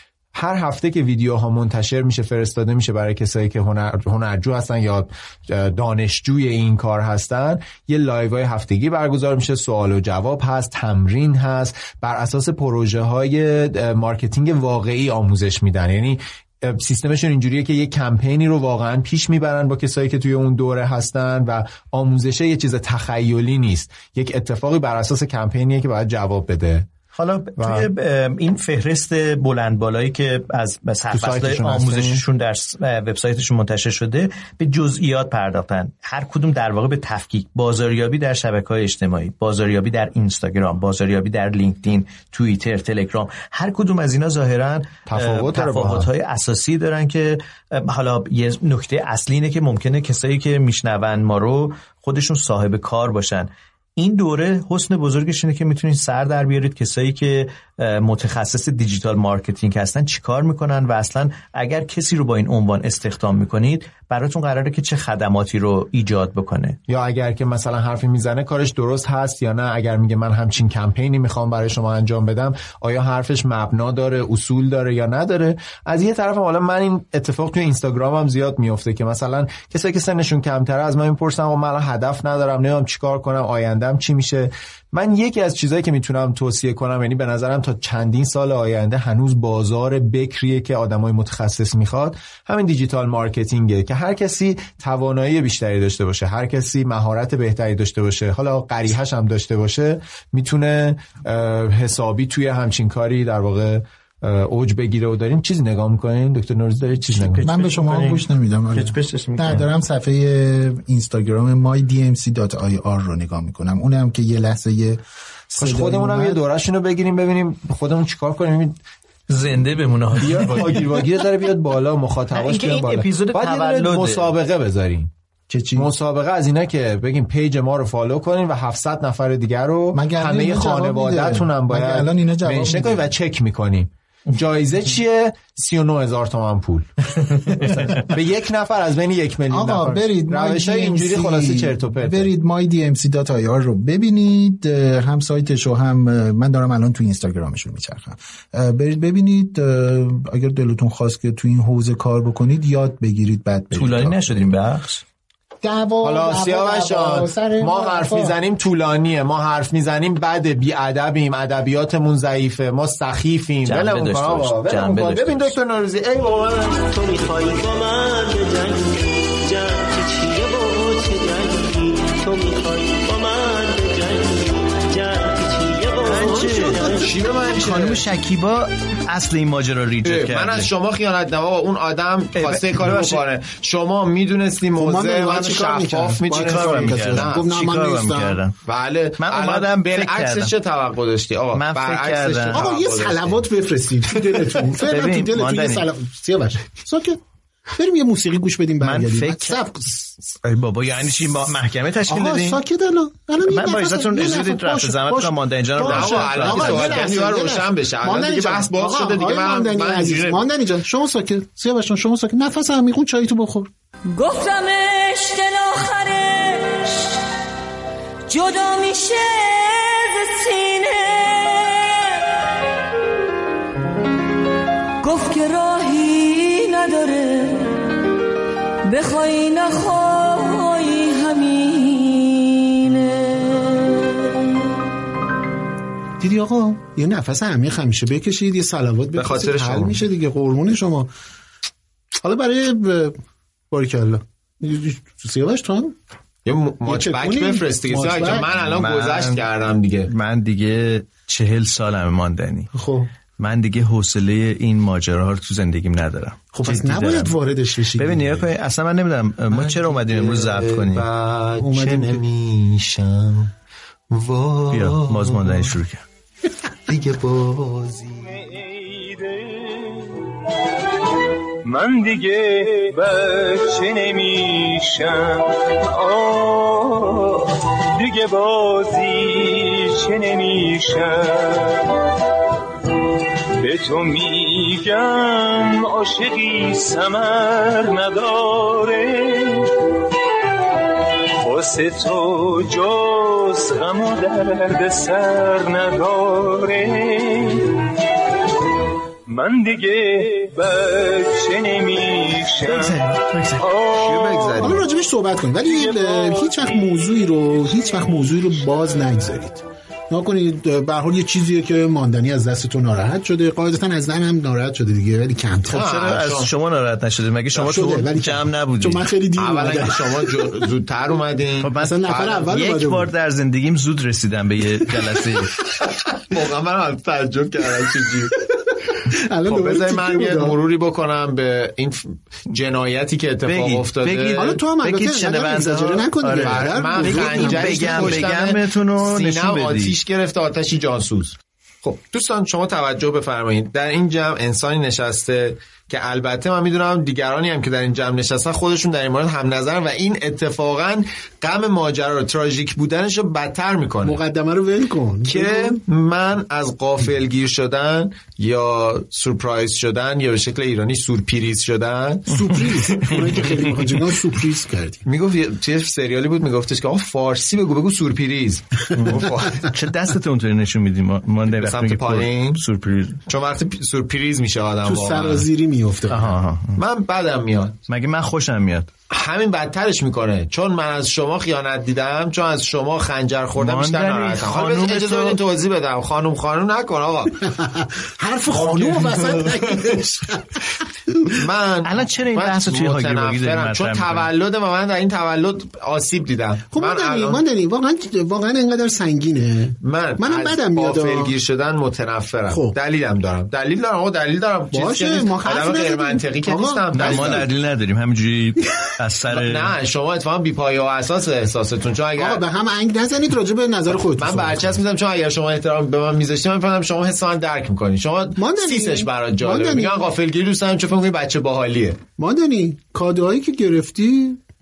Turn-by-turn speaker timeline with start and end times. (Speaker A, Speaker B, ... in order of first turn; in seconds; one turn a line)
Speaker A: 0.3-26.9
Speaker B: 27.1-66.8
Speaker A: 27.6-27.9
Speaker A: 31.1-32.2
Speaker A: 45.1-46.1
Speaker A: 66.9-107.5
Speaker B: 107.0-109.7
Speaker C: 107.4-116.4
Speaker A: 115.6-118.8
Speaker B: 119.3-121.0
Speaker A: 120.2-125.1
Speaker B: 122.3-124.3
Speaker C: 125.5-125.9
Speaker A: 125.8-142.3
Speaker C: 129.9-133.0
Speaker C: 139.5-154.5
Speaker B: 153.7-155.0
Speaker C: 155.6-158.3
Speaker A: 156.0-166.8
Speaker B: 163.6-165.6
Speaker D: 166.8-177.1
Speaker B: 176.0-180.7
Speaker A: 176.9-178.0
Speaker A: 180.0-187.4
Speaker B: 182.3-183.2
Speaker C: 184.8-188.4
Speaker B: 186.3-188.6
Speaker A: 188.6-193.4
Speaker B: 189.2-190.5
Speaker B: 191.5-192.6
Speaker C: 192.5-197.2
Speaker B: 194.8-195.9
Speaker C: 197.7-200.1
Speaker B: 198.8-199.6
Speaker B: 200.4-202.6
Speaker C: 202.1-213.7
Speaker B: 203.4-207.1
Speaker A: 205.8-210.5
Speaker E: 214.1-217.2
Speaker E: 218.3-222.0
Speaker E: 225.0-227.8
Speaker E: 228.8-234.3
Speaker C: 236.2-241.1
Speaker A: 239.2-240.0
Speaker C: 242.2-243.2
Speaker C: 243.7-245.9
Speaker A: 246.4-250.1
Speaker C: 246.8-248.5
Speaker B: 248.5-249.5
Speaker B: 250.1-252.7
Speaker C: 252.7-253.1
Speaker B: 253.4-257.4
Speaker C: 256.5-258.4
Speaker B: 258.0-261.1
Speaker A: 259.5-263.5
Speaker C: 261.6-262.2
Speaker A: 264.1-265.7
Speaker B: 264.7-266.0
Speaker A: 266.9-268.3
Speaker F: 268.8-269.2
Speaker F: 271.6-275.3
Speaker F: 276.0-277.3
Speaker F: 278.0-281.2
Speaker F: 283.6-289.6
Speaker F: 291.4-297.6
Speaker F: 299.3-302.8
Speaker B: 302.6-303.7
Speaker F: 303.7-304.2
Speaker A: 303.9-304.8
Speaker C: 304.6-315.9
Speaker B: 315.7-319.1
Speaker A: 315.7-316.5
Speaker C: 317.5-320.5
Speaker A: 319.4-322.4
Speaker B: 321.6-325.5
Speaker C: 321.8-323.1
Speaker A: 326.2-328.3
Speaker C: 329.1-330.6
Speaker A: 329.5-334.5
Speaker B: 333.4-340.0
Speaker C: 334.3-338.2
Speaker A: 336.4-354.2
Speaker C: 354.0-355.8
Speaker A: 355.2-363.1
Speaker C: 362.3-365.0
Speaker A: 365.1-369.6
Speaker B: 368.9-373.2
Speaker A: 371.6-372.6
Speaker A: 373.3-375.4
Speaker C: 374.8-376.4
Speaker B: 376.1-376.8
Speaker A: 376.8-377.8
Speaker B: 377.9-378.9
Speaker A: 379.1-387.3
Speaker B: 383.6-385.4
Speaker C: 387.5-390.6
Speaker A: 388.6-388.9
Speaker A: 391.4-397.4
Speaker B: 391.8-394.3
Speaker C: 396.7-401.3
Speaker A: 399.8-407.4
Speaker C: 402.5-402.7
Speaker C: 404.7-407.4
Speaker B: 406.9-409.7
Speaker A: 409.3-412.4
Speaker C: 412.2-414.8
Speaker A: 414.1-422.0
Speaker C: 418.4-420.0
Speaker C: 422.2-424.4